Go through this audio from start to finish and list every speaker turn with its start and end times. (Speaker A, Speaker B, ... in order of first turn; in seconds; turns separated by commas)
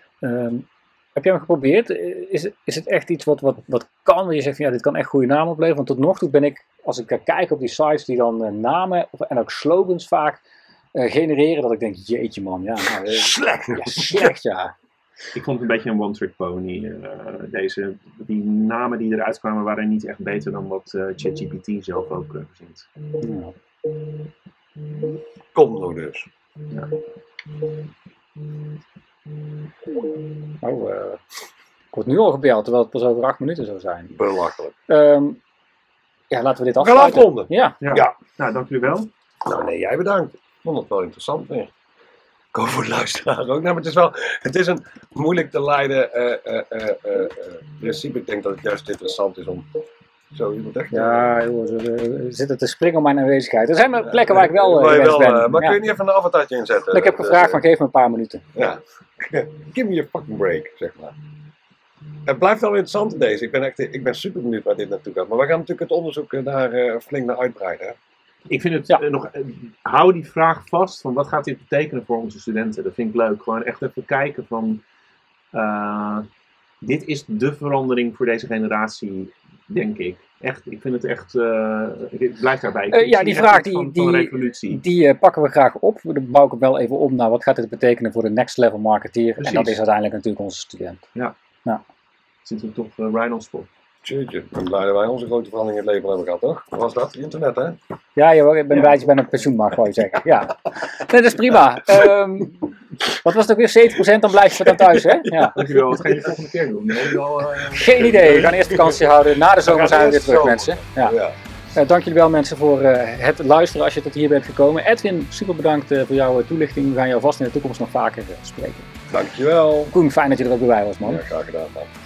Speaker A: 0.2-10.4, Speaker A: 10.9-14.7, Speaker B: 12.8-14.3, Speaker C: 15.3-22.9, Speaker A: 23.2-23.5, Speaker B: 25.5-26.3, Speaker A: 30.6-31.2, Speaker A: 31.9-34.1, Speaker B: 34.1-34.7, Speaker A: 34.9-35.4, Speaker A: 36.3-37.8, Speaker B: 36.8-38.1, Speaker C: 37.8-39.1, Speaker B: 39.4-41.7, Speaker B: 42.5-49.6, Speaker B: 50.3-51.2, Speaker A: 50.9-55.8, Speaker B: 54.0-57.6, Speaker A: 56.9-58.4, Speaker B: 58.5-61.1, Speaker B: 62.2-68.0, Speaker C: 68.5-74.8, Speaker C: 75.5-76.2, Speaker C: 76.8-84.8, Speaker A: 82.9-91.0, Speaker C: 89.4-89.8, Speaker C: 92.4-93.7, Speaker B: 94.0-97.8, Speaker A: 98.2-105.6, Speaker C: 105.5-108.5, Speaker A: 107.8-111.1, Speaker B: 107.8-109.0, Speaker B: 109.6-111.3, Speaker A: 111.8-118.9, Speaker B: 119.1-119.9, Speaker A: 119.9-121.2, Speaker B: 121.0-121.9